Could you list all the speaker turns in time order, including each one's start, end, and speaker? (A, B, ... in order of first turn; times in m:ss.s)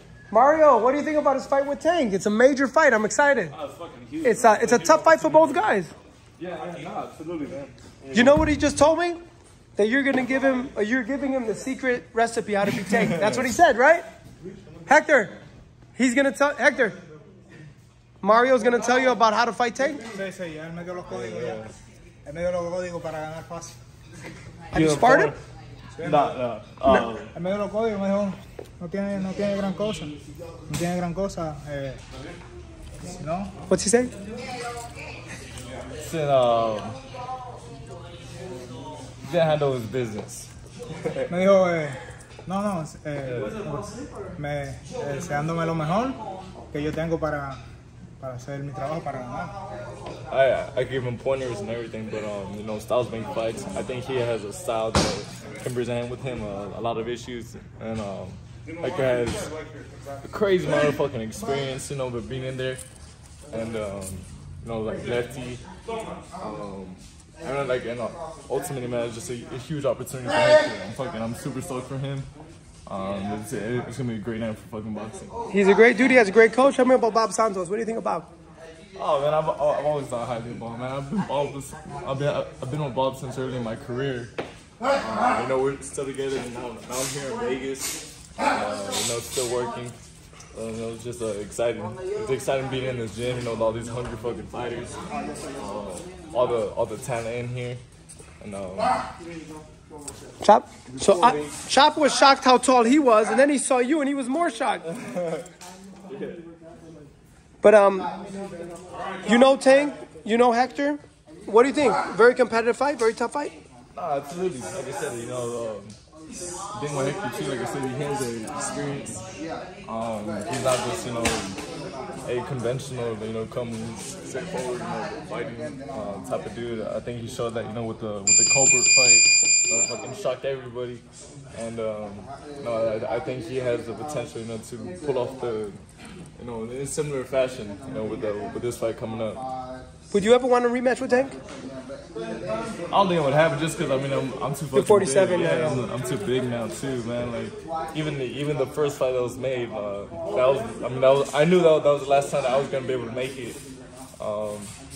0:00.3-0:03.6 A
0:03.5-0:05.6 B
0:04.2-0:05.9 A
0:06.4-0:08.4 B
0:08.1-0:09.2 A
0:09.8-0:14.1 A
0:12.7-0:13.5 B
0:14.9-0:15.4 A
0:16.0-0:17.0 A
0:18.2-0:20.0 A
0:20.0-0:23.8 C
0:21.1-0:21.7 B
0:24.7-0:25.3 A
0:24.7-0:25.4 B
0:25.9-0:26.4 C
0:26.0-0:27.3 B
0:27.3-0:30.1 C
0:30.7-0:32.0 C
0:33.0-0:33.6 C
0:33.7-0:34.1 A
0:36.0-0:37.0 B
0:39.2-0:40.5 B
0:41.3-0:46.2 C
0:46.7-0:47.6 C
0:48.2-0:49.5 C
0:50.3-0:59.5 B
1:00.2-1:02.8 B
1:03.5-1:05.6 B
1:06.4-1:12.3 B
1:12.8-1:15.4 B
1:15.5-1:18.3 A
1:19.0-1:24.3 B
1:25.0-1:30.0 B
1:30.5-1:35.0 B
1:35.6-1:37.8 B
1:38.4-1:39.0 B
1:40.4-1:44.8 A
1:44.9-1:45.4 B
1:46.1-1:46.4 B
1:47.6-1:48.1 A
1:49.2-1:53.5 A
1:53.9-1:56.0 B
1:56.7-1:59.2 B
1:59.8-2:01.6 B
2:02.2-2:15.8 B
2:16.4-2:19.4 B
2:20.1-2:21.4 A
2:22.9-2:33.6 B
2:24.7-2:25.8 A
2:34.2-2:34.7 B